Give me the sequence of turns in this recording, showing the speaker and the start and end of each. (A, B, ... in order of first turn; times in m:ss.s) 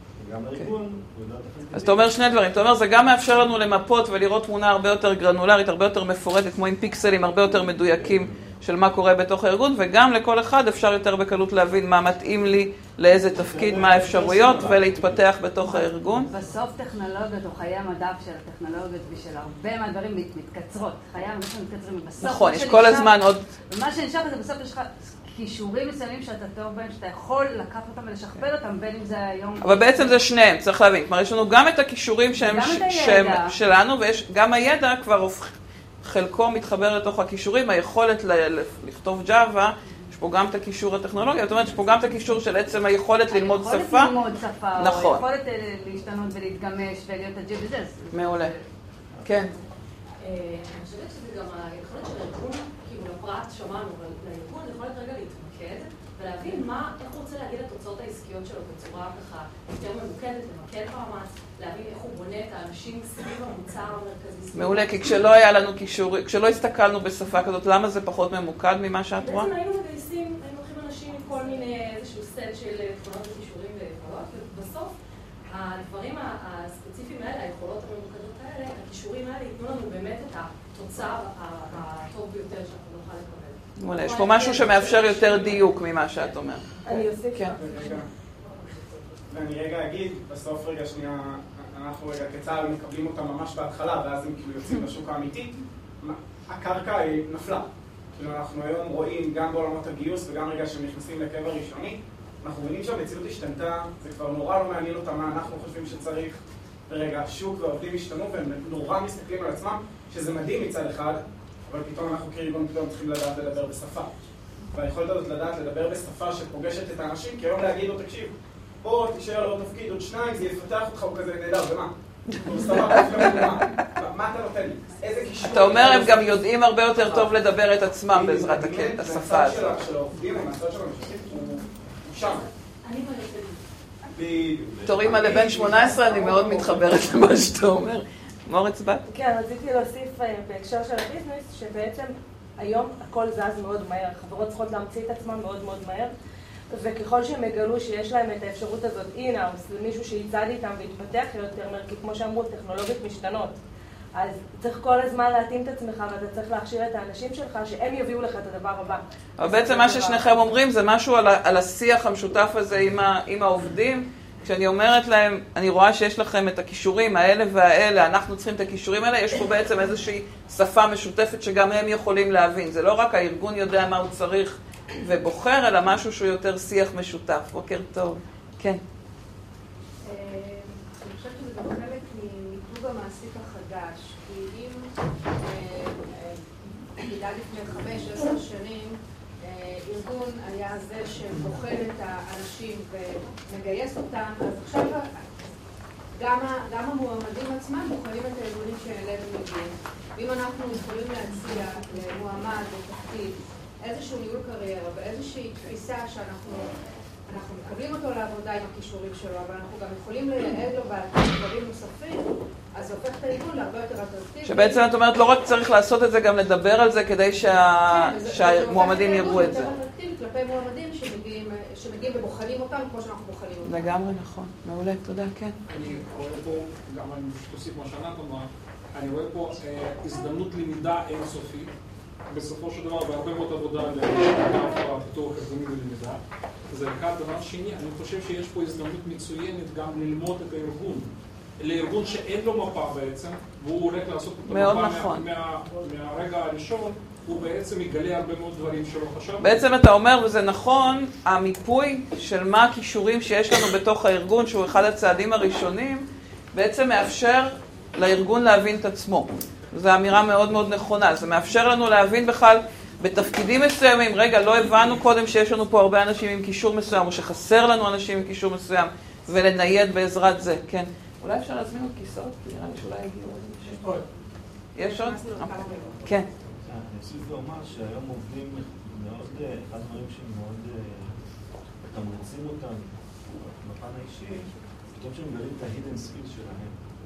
0:00.2-0:02.1 A
0:01.8-0:16.3 B
0:13.4-0:15.3 A
0:16.3-0:23.2 C
0:22.2-0:23.5 B
0:23.7-0:30.2 C
0:29.6-0:35.5 B
0:32.4-0:33.5 C
0:36.0-0:44.2 B
0:43.3-0:48.6 C
0:44.8-0:45.2 B
0:48.1-0:48.6 B
0:49.2-0:49.4 A
0:49.2-0:49.5 B
0:50.2-1:05.2 D
1:04.6-1:09.5 B
1:09.2-1:14.9 D
1:15.5-1:25.7 D
1:23.8-1:26.8 B
1:26.8-1:27.8 E
1:27.6-1:28.1 F
1:29.3-1:54.1 F
1:54.7-2:06.4 F
2:02.3-2:03.5 B
2:05.5-2:09.8 B
2:08.1-2:12.4 F
2:12.2-2:13.6 D
2:14.1-2:17.0 F
2:14.8-2:15.2 A
2:14.8-2:19.0 B
2:19.1-2:26.1 E
2:26.7-2:33.6 E
2:34.2-2:40.3 E
2:39.4-2:58.8 B
3:00.0-3:06.4 G
3:07.0-3:15.2 G
3:16.2-3:26.7 G
3:27.3-3:34.9 G
3:34.4-3:39.7 B
3:37.9-3:43.9 G
3:43.6-3:45.6 B
3:45.7-3:51.7 H
3:52.3-4:09.6 H
4:04.5-4:05.2 B
4:09.4-4:34.0 B
4:34.8-4:36.3 B
4:34.8-4:36.2 G
4:36.6-4:41.2 A
4:41.8-4:46.8 A